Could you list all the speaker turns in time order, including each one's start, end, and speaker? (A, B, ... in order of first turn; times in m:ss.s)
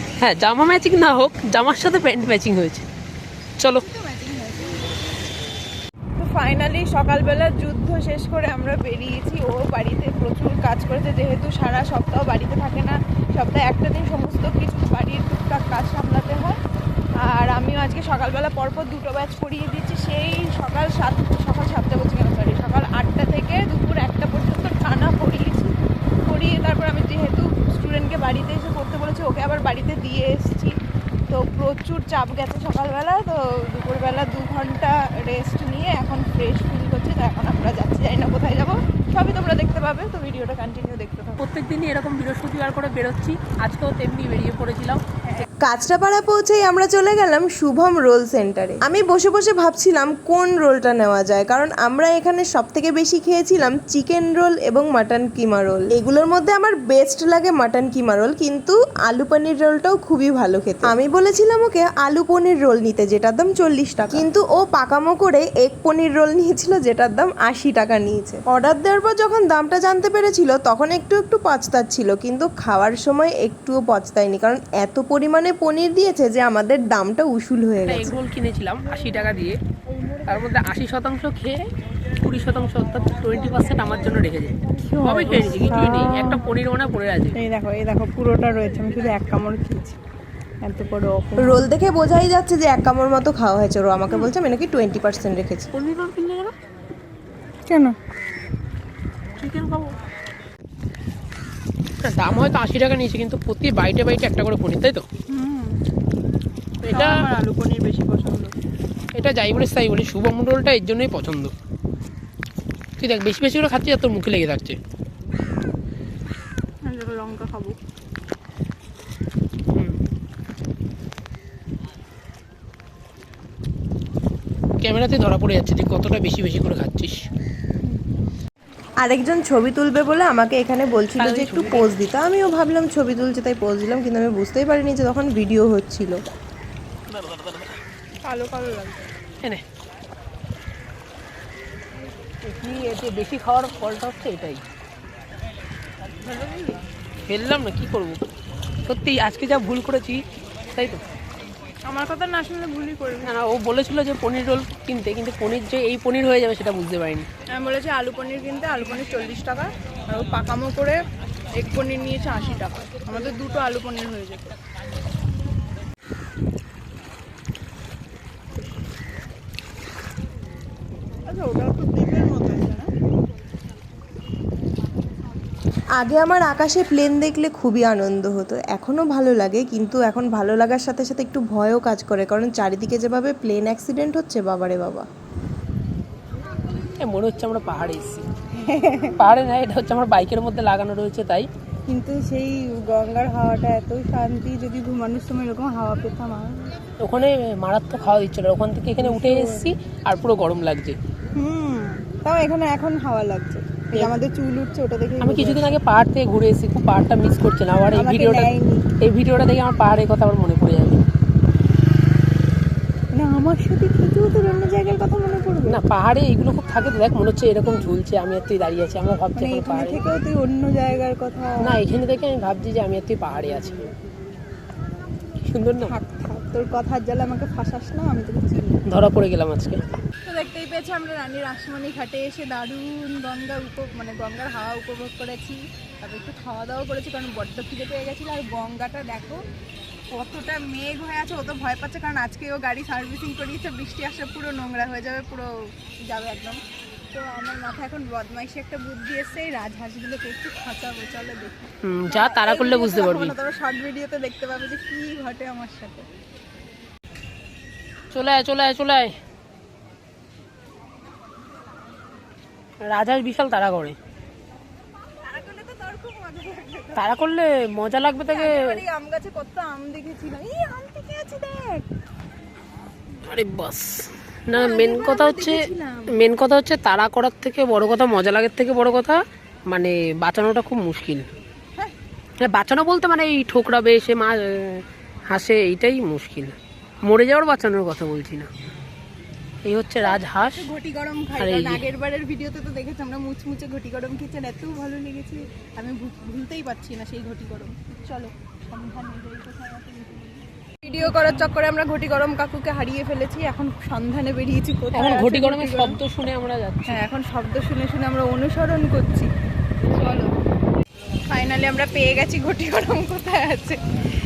0:00.2-0:02.8 A
0:03.6-0:03.8 A
0:03.8-0:05.0 B
0:06.2-0:16.6 B
0:17.2-0:30.7 B
0:31.3-0:41.4 B
0:41.4-0:45.0 A
0:45.6-1:18.2 C
1:17.9-1:19.6 A
1:20.2-1:21.6 A
1:22.2-1:27.4 A
1:24.9-1:26.6 B
1:27.3-1:30.0 B
1:30.6-1:31.7 B
1:31.4-1:35.7 C
1:35.7-1:36.5 A
1:37.7-1:38.0 B
1:39.4-1:39.9 A
1:42.0-1:45.0 A
1:45.3-1:45.8 B
1:46.8-1:47.2 A
1:46.9-1:48.6 B
1:49.2-1:51.5 A
1:53.0-1:54.8 A
1:56.8-1:57.8 B
2:04.8-2:07.2 A
2:09.0-2:16.2 C
2:11.2-2:11.9 A
2:17.2-2:17.6 A
2:18.2-2:19.1 B
2:22.5-2:24.6 A
2:26.2-2:26.8 B
2:27.3-2:28.2 A
2:28.9-2:30.2 A
2:30.7-2:31.0 A
2:31.9-2:33.3 B
2:33.2-2:37.3 A
2:37.5-2:41.0 B
2:41.6-2:44.6 B
2:51.2-2:52.9 B
2:56.0-3:05.1 C
3:07.0-3:08.2 A
3:08.6-3:09.2 B
3:09.2-3:11.5 A
3:11.9-3:16.6 B
3:17.0-3:21.0 A
3:19.0-3:19.7 B
3:21.3-3:25.7 B
3:25.2-3:28.5 A
3:27.9-3:28.9 B
3:29.0-3:31.0 A
3:33.1-3:35.8 B
3:35.7-3:40.0 A
3:39.3-3:41.8 B
3:41.6-3:43.9 A
3:45.5-3:46.0 A
3:45.8-3:48.8 B
3:48.9-3:50.0 A
3:50.2-3:59.4 B
4:00.1-4:06.6 B
4:07.1-4:16.1 B
4:11.8-4:13.3 A
4:18.1-4:19.1 A
4:22.8-4:24.0 A
4:25.2-4:27.1 B
4:26.9-4:28.8 A
4:28.3-4:31.9 B
4:33.2-4:41.3 A
4:34.5-4:36.2 B
4:42.4-4:48.5 A
4:49.6-4:50.7 A
4:50.0-5:06.0 B
4:51.4-4:51.8 A
5:01.0-5:01.5 A
5:04.9-5:07.0 A
5:06.9-5:09.3 B
5:09.9-5:10.4 B
5:11.3-5:13.8 B